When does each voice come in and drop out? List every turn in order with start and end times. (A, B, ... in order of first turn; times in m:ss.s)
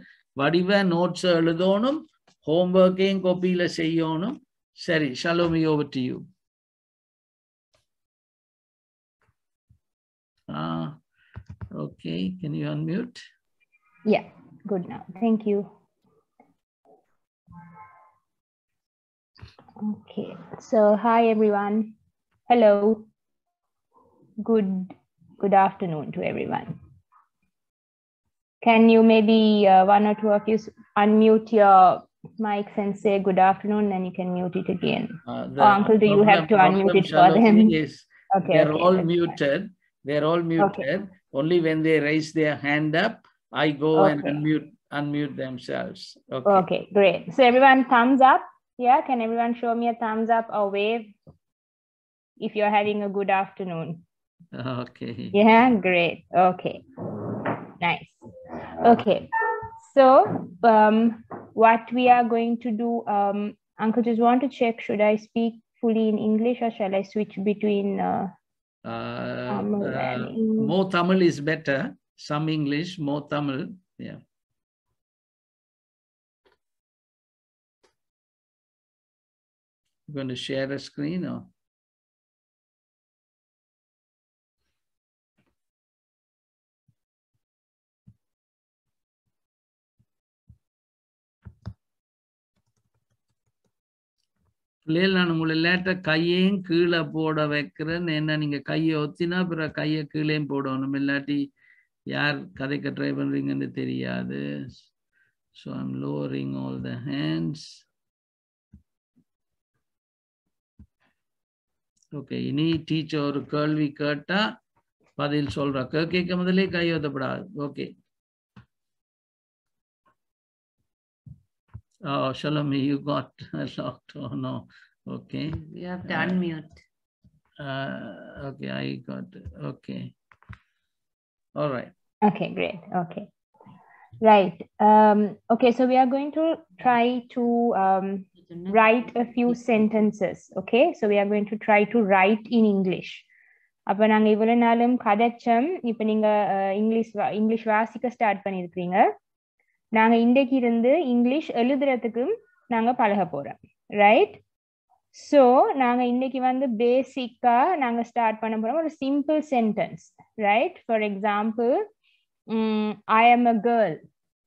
0:00.4-0:06.2 A
0:10.5-0:11.0 A
0:11.8-0:13.2 A
0:14.1-0:15.7 B
0:19.8-0:21.9 B
0:22.5-0:23.1 B
0:24.4-0:26.7 B
0:28.6-0:37.8 B
0:35.3-0:46.6 A
0:38.3-0:39.1 B
0:40.6-0:40.8 B
0:43.9-0:44.4 B
0:46.4-0:51.1 B
0:52.4-0:54.0 B
0:54.6-0:55.3 A
0:55.3-0:56.8 B
0:57.3-0:58.2 B
0:58.8-0:59.3 B
0:59.8-1:08.3 B
1:08.9-1:14.2 A
1:09.5-1:10.7 B
1:20.1-1:21.4 A
1:34.8-1:41.5 A
1:42.1-1:44.4 A
1:45.6-1:47.8 A
1:52.1-1:54.4 A
1:55.2-1:57.9 A
2:02.1-2:06.4 A
2:05.5-2:06.8 C
2:07.6-2:10.1 A
2:11.6-2:11.9 A
2:12.2-2:13.3 B
2:14.2-2:23.2 B
2:18.4-2:20.0 C
2:23.9-2:29.1 B
2:29.9-2:34.4 B
2:35.1-2:41.9 B
2:42.5-2:44.0 B